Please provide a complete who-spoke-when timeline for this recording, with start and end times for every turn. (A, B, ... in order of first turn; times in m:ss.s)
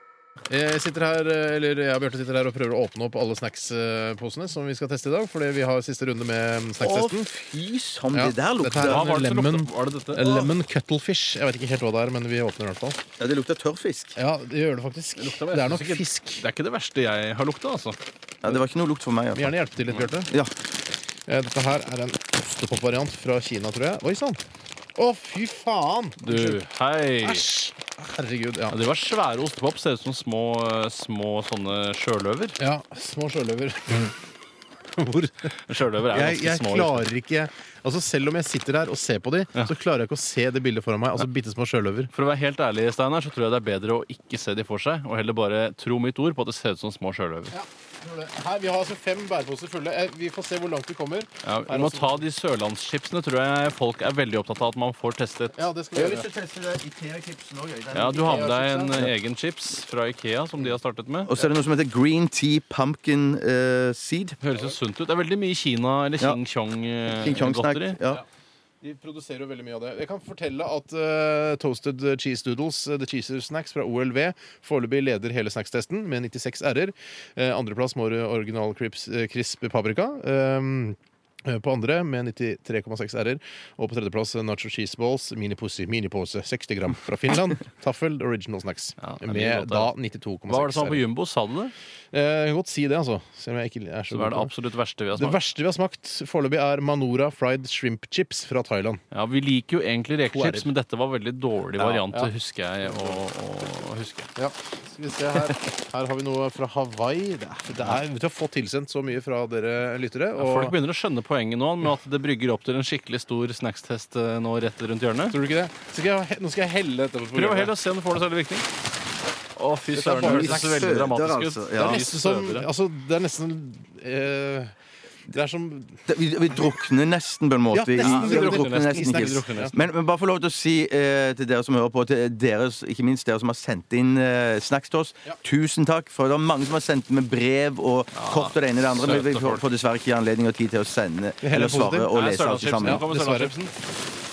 0:00.5-0:07.3 A
0:06.8-0:09.1 B
0:08.1-0:13.0 A
0:08.8-0:10.2 C
0:10.2-0:10.5 B
0:13.2-0:14.2 B
0:14.2-0:16.5 A
0:15.2-0:18.0 C
0:18.4-0:19.5 B
0:19.3-0:20.3 A
0:21.3-0:24.4 A
0:25.0-0:26.6 A
0:26.2-0:27.5 C
0:27.2-0:28.8 A
0:28.7-0:32.6 C
0:32.6-0:34.2 A
0:35.0-0:42.1 A
0:35.7-0:37.1 C
0:42.1-0:47.5 C
0:47.5-0:52.2 A
0:51.4-0:55.6 C
0:55.6-0:56.3 A
0:55.9-0:59.1 B
0:57.9-1:01.3 C
0:58.0-0:59.0 A
1:01.2-1:04.4 B
1:04.4-1:08.0 C
1:07.1-1:08.2 B
1:08.8-1:31.1 A
1:29.0-1:29.9 C
1:30.5-1:31.7 C
1:32.1-1:34.5 A
1:34.1-1:35.4 C
1:35.1-1:39.0 A
1:39.1-1:44.3 C
1:40.2-1:40.7 A
1:41.8-1:42.0 B
1:42.9-1:43.2 A
1:44.4-1:50.8 A
1:50.4-1:55.4 C
1:55.3-1:57.8 A
1:57.3-1:58.7 C
1:59.6-2:02.7 C
1:59.9-2:01.1 A
2:00.0-2:02.0 B
2:01.8-2:04.8 A
2:05.3-2:06.1 A
2:06.1-2:23.1 B
2:07.7-2:09.7 A
2:08.0-2:09.8 C
2:18.1-2:19.6 C
2:21.4-2:22.1 A
2:22.1-2:23.7 C
2:22.8-2:23.6 A